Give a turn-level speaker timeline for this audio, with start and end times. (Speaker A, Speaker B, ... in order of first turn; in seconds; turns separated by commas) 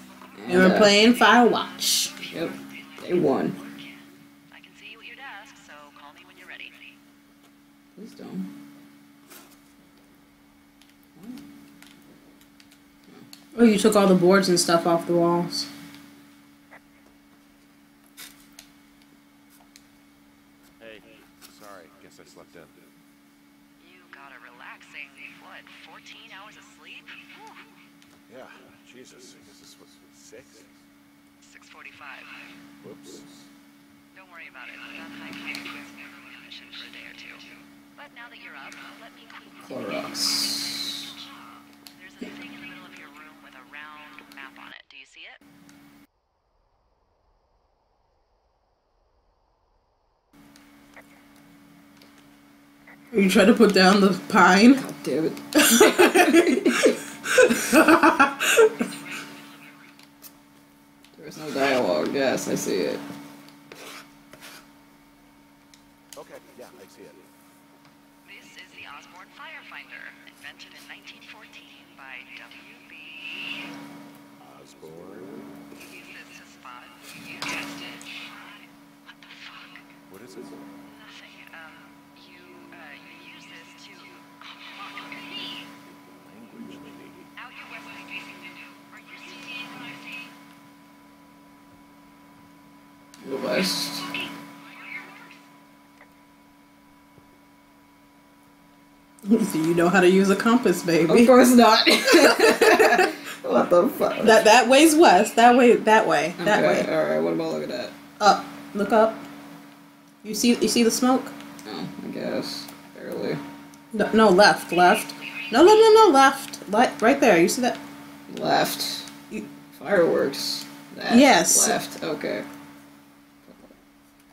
Speaker A: 0.3-0.9, Speaker B: 0.5-2.1, Speaker A: 2.2-3.6, Speaker C: 4.5-6.9, Speaker A: 7.9-8.5, Speaker B: 13.5-15.7, Speaker D: 20.8-22.8, Speaker C: 23.8-27.7, Speaker D: 28.3-30.7, Speaker C: 31.4-32.4, Speaker D: 32.8-33.3, Speaker C: 34.1-39.8, Speaker A: 39.6-41.1, Speaker C: 41.9-45.4, Speaker B: 53.1-54.8, Speaker A: 54.7-57.0, Speaker B: 55.7-58.8, Speaker A: 61.1-63.0, Speaker D: 66.2-67.2, Speaker C: 68.2-73.6, Speaker D: 74.4-75.5, Speaker C: 75.7-79.9, Speaker D: 80.1-80.7, Speaker C: 80.8-85.7, Speaker D: 85.8-87.2, Speaker C: 87.4-90.3, Speaker A: 93.2-94.1, Speaker C: 94.7-95.3, Speaker B: 99.2-101.3, Speaker A: 101.0-104.4, Speaker B: 102.3-103.1, Speaker B: 104.2-106.9, Speaker A: 106.4-107.9, Speaker B: 108.2-109.2, Speaker B: 110.2-111.3, Speaker A: 111.7-113.4, Speaker B: 113.9-117.8, Speaker A: 118.3-119.1, Speaker A: 119.7-122.5, Speaker B: 121.1-121.8, Speaker A: 123.4-123.7